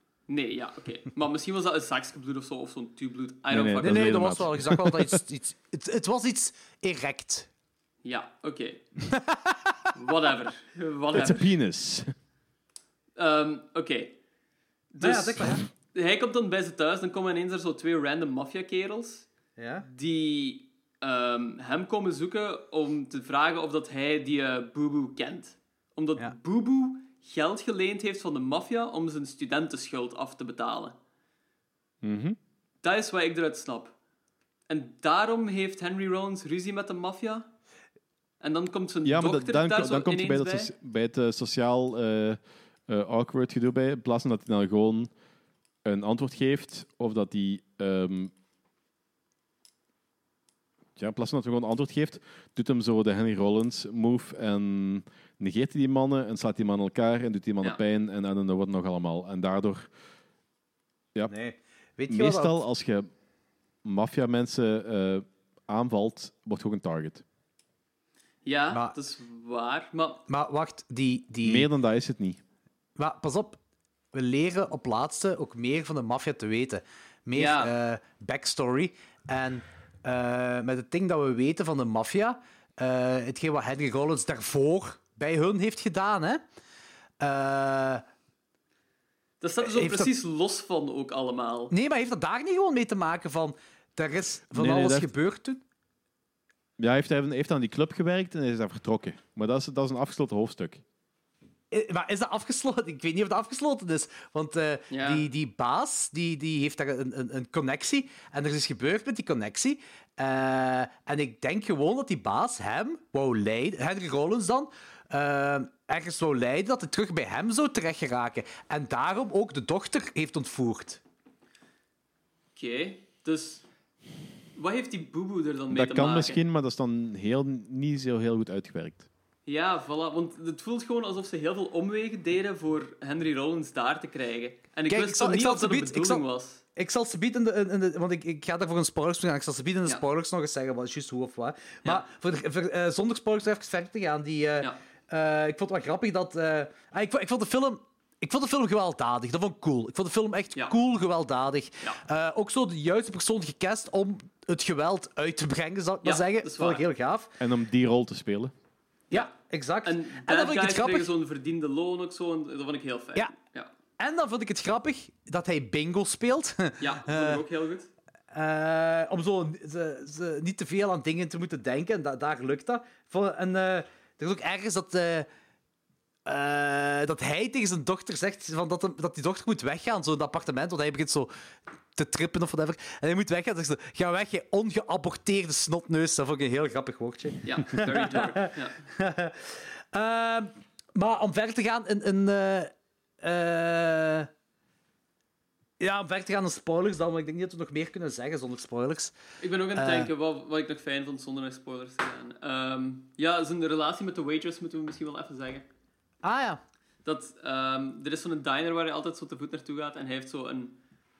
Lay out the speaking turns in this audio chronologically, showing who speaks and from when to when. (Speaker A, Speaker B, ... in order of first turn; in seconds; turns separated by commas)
Speaker A: 0.3-4.3, Speaker B: 3.5-5.2, Speaker C: 3.8-7.5, Speaker A: 8.0-8.8, Speaker C: 9.1-9.8, Speaker A: 9.9-11.5, Speaker B: 11.1-12.1, Speaker A: 13.2-14.2, Speaker A: 14.9-19.3, Speaker C: 15.0-15.6, Speaker C: 19.6-19.9, Speaker A: 19.8-30.9, Speaker B: 32.0-32.4, Speaker A: 32.8-33.9, Speaker A: 34.7-37.5, Speaker A: 38.4-40.7, Speaker B: 39.0-45.1, Speaker B: 45.8-48.3, Speaker B: 51.0-59.9, Speaker C: 61.3-62.6, Speaker B: 62.1-63.1, Speaker B: 63.8-67.2, Speaker A: 68.4-70.2, Speaker C: 68.7-69.0, Speaker C: 70.3-71.7, Speaker B: 71.4-72.4, Speaker C: 73.0-73.6, Speaker C: 74.1-86.4, Speaker A: 77.3-77.7, Speaker C: 87.2-88.0, Speaker A: 89.4-91.7, Speaker C: 89.6-90.1, Speaker C: 91.7-95.6, Speaker B: 94.5-95.1, Speaker B: 96.8-100.8, Speaker C: 101.7-121.0, Speaker A: 104.9-105.3, Speaker A: 122.5-123.6, Speaker A: 124.5-126.4, Speaker B: 125.7-129.1, Speaker A: 129.5-136.6, Speaker C: 134.9-136.2, Speaker C: 136.8-157.3, Speaker A: 156.0-156.8, Speaker B: 157.4-158.5, Speaker C: 159.1-161.1, Speaker A: 159.8-163.7, Speaker C: 164.0-167.4, Speaker A: 166.8-167.9, Speaker C: 168.3-175.3, Speaker C: 176.2-181.3, Speaker C: 181.9-194.3, Speaker A: 187.4-188.8, Speaker C: 195.8-199.1, Speaker A: 199.4-205.7, Speaker C: 199.7-200.1, Speaker C: 206.2-206.6, Speaker A: 207.0-210.7